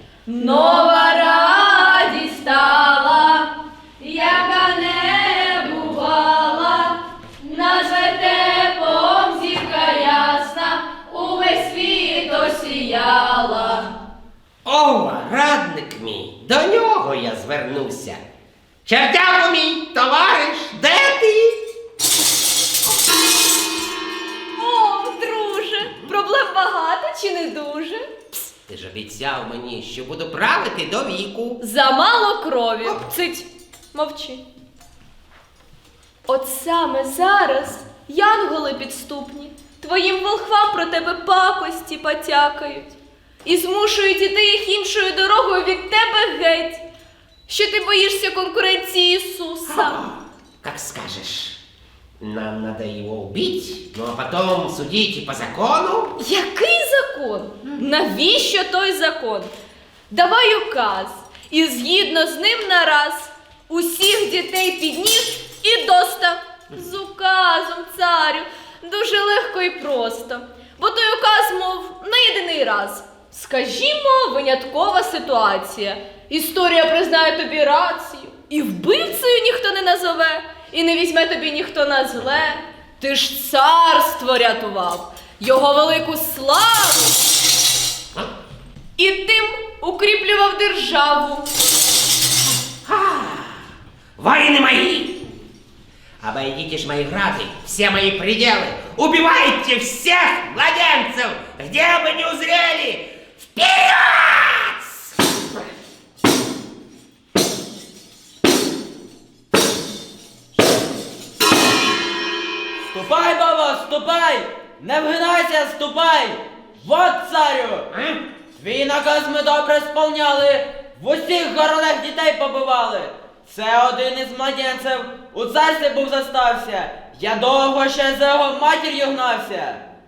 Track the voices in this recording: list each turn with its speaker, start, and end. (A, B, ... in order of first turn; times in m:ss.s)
0:00.2-0:13.9 A
0:14.6-0:18.2 B
0:18.8-0:21.6 B
0:24.5-0:28.0 A
0:28.7-0:31.6 B
0:31.6-0:34.4 A
0:36.3-0:46.8 A
0:47.5-0:50.0 A
0:49.7-0:51.6 B
0:52.2-0:56.1 B
0:56.2-0:59.5 A
1:00.1-1:27.2 A
1:29.0-1:31.4 A
1:32.8-1:35.2 B
1:36.2-1:45.1 B
1:52.9-1:57.9 C
1:57.9-1:58.2 B
1:58.6-2:09.8 C